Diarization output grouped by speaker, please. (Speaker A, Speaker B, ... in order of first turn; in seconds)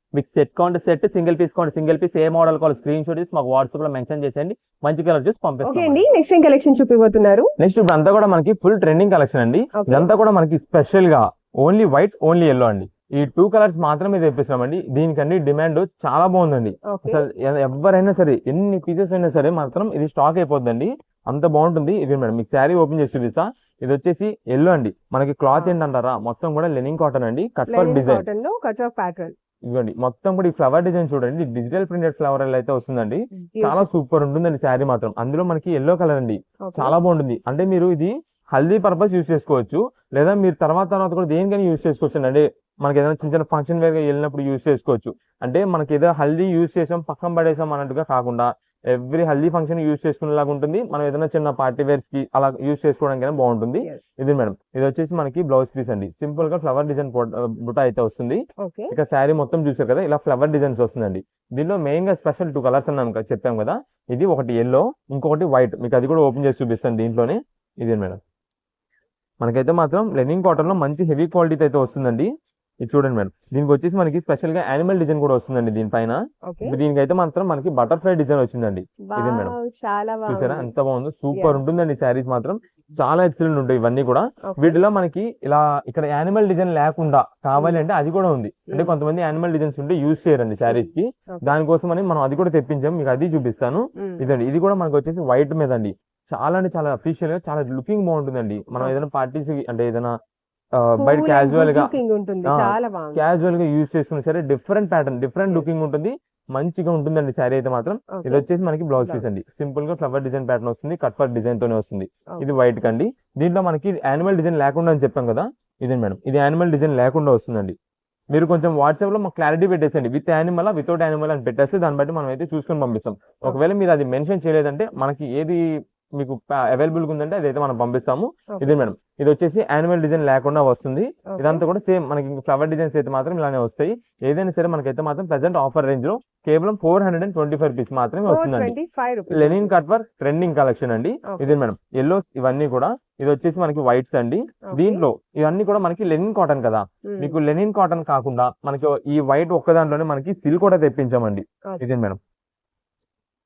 Speaker A: 0.1-6.0
Speaker B: 5.6-7.5, 9.8-10.1, 16.9-17.2, 27.7-29.3, 33.5-33.9, 36.6-37.0, 53.8-54.1, 58.6-58.9, 76.5-76.8, 79.1-80.7, 81.3-81.6, 84.5-84.8, 87.6-87.8, 88.7-89.0, 90.7-91.4, 101.0-103.2, 108.1-108.5, 109.0-109.3, 131.3-131.6, 138.3-139.7, 144.7-145.0, 147.1-147.4
Speaker C: 7.6-28.2, 29.7-68.2, 69.4-72.3, 72.8-79.5, 80.3-100.1, 100.8-101.9, 102.5-117.8, 118.3-125.6, 126.2-138.7, 139.3-152.2